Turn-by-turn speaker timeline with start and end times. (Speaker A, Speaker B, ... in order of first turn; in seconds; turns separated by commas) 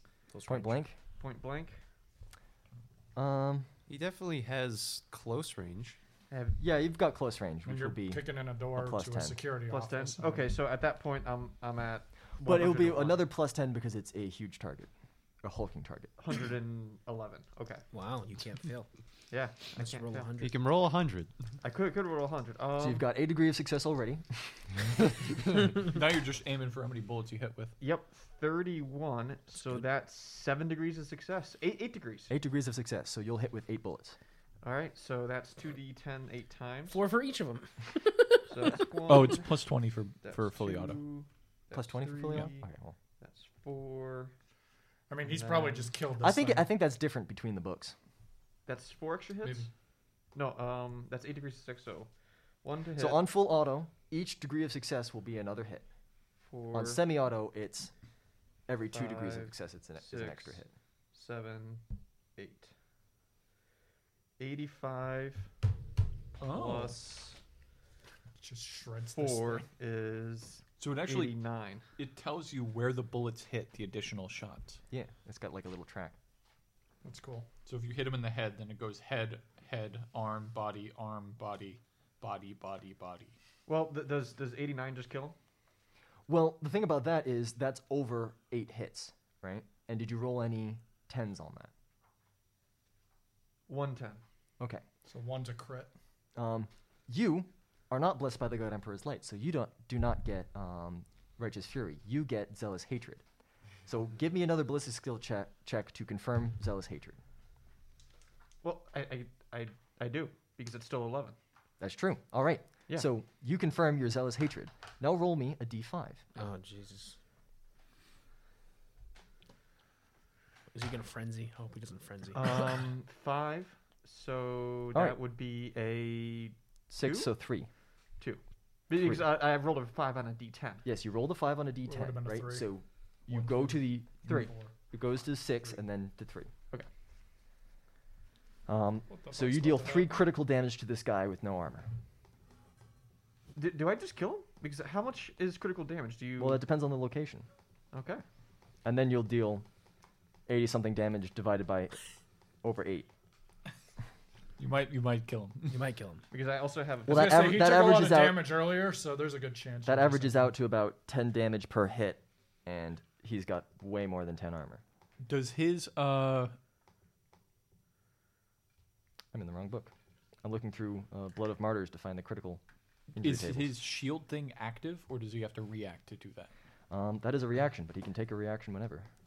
Speaker A: 0.3-0.8, Speaker B: 0.5-0.9, Speaker C: 1.2-1.8, Speaker B: 3.1-3.7, Speaker D: 3.9-6.0, Speaker C: 6.3-6.6, Speaker B: 6.6-9.4, Speaker E: 7.6-10.5, Speaker C: 9.7-13.2, Speaker B: 12.4-14.9, Speaker B: 15.4-16.1, Speaker C: 16.2-17.8, Speaker A: 17.9-18.9, Speaker C: 19.3-20.3, Speaker A: 19.8-20.5, Speaker D: 20.4-21.3, Speaker C: 21.6-23.0, Speaker B: 22.8-24.5, Speaker F: 25.7-27.7, Speaker C: 27.8-32.3, Speaker B: 32.3-34.1, Speaker C: 34.6-37.0, Speaker A: 36.9-38.9, Speaker C: 38.5-42.7, Speaker F: 39.1-41.0, Speaker B: 41.7-42.9, Speaker C: 43.2-44.3, Speaker E: 45.1-46.7, Speaker C: 45.2-45.9, Speaker B: 46.2-47.9, Speaker C: 48.6-49.7, Speaker C: 50.3-52.1, Speaker C: 52.6-53.2, Speaker B: 53.0-55.8, Speaker C: 56.5-57.0, Speaker B: 56.7-57.9, Speaker B: 58.7-60.7, Speaker C: 58.9-61.8, Speaker C: 62.4-62.7, Speaker C: 64.4-65.5, Speaker F: 66.4-67.0, Speaker C: 66.4-67.4, Speaker E: 68.4-69.7, Speaker C: 69.1-71.8, Speaker F: 70.8-71.4, Speaker F: 72.0-74.8, Speaker B: 74.9-76.2, Speaker E: 77.0-77.5, Speaker F: 77.7-83.3, Speaker C: 83.7-85.3, Speaker B: 86.3-91.7, Speaker C: 93.7-94.2, Speaker E: 95.0-95.9, Speaker B: 96.3-103.2, Speaker B: 103.9-107.2, Speaker C: 108.6-111.3, Speaker B: 111.8-116.2, Speaker A: 116.3-117.2, Speaker A: 120.7-122.8, Speaker C: 122.3-127.3, Speaker B: 126.9-127.7, Speaker C: 128.2-130.8, Speaker B: 130.8-136.5, Speaker E: 131.9-132.7, Speaker E: 133.3-134.7, Speaker B: 138.7-141.9, Speaker E: 139.1-140.2, Speaker C: 143.5-146.6, Speaker B: 146.4-147.4, Speaker C: 147.9-148.2, Speaker B: 148.8-149.7, Speaker B: 150.5-152.0, Speaker B: 152.6-153.1, Speaker F: 154.6-155.8, Speaker A: 155.7-156.2, Speaker C: 156.3-157.8, Speaker B: 157.1-158.6, Speaker E: 157.1-160.5, Speaker B: 159.8-164.8, Speaker F: 165.2-166.6, Speaker B: 169.3-169.9, Speaker B: 170.4-172.6, Speaker B: 173.1-173.8, Speaker F: 173.2-176.5, Speaker B: 176.9-179.1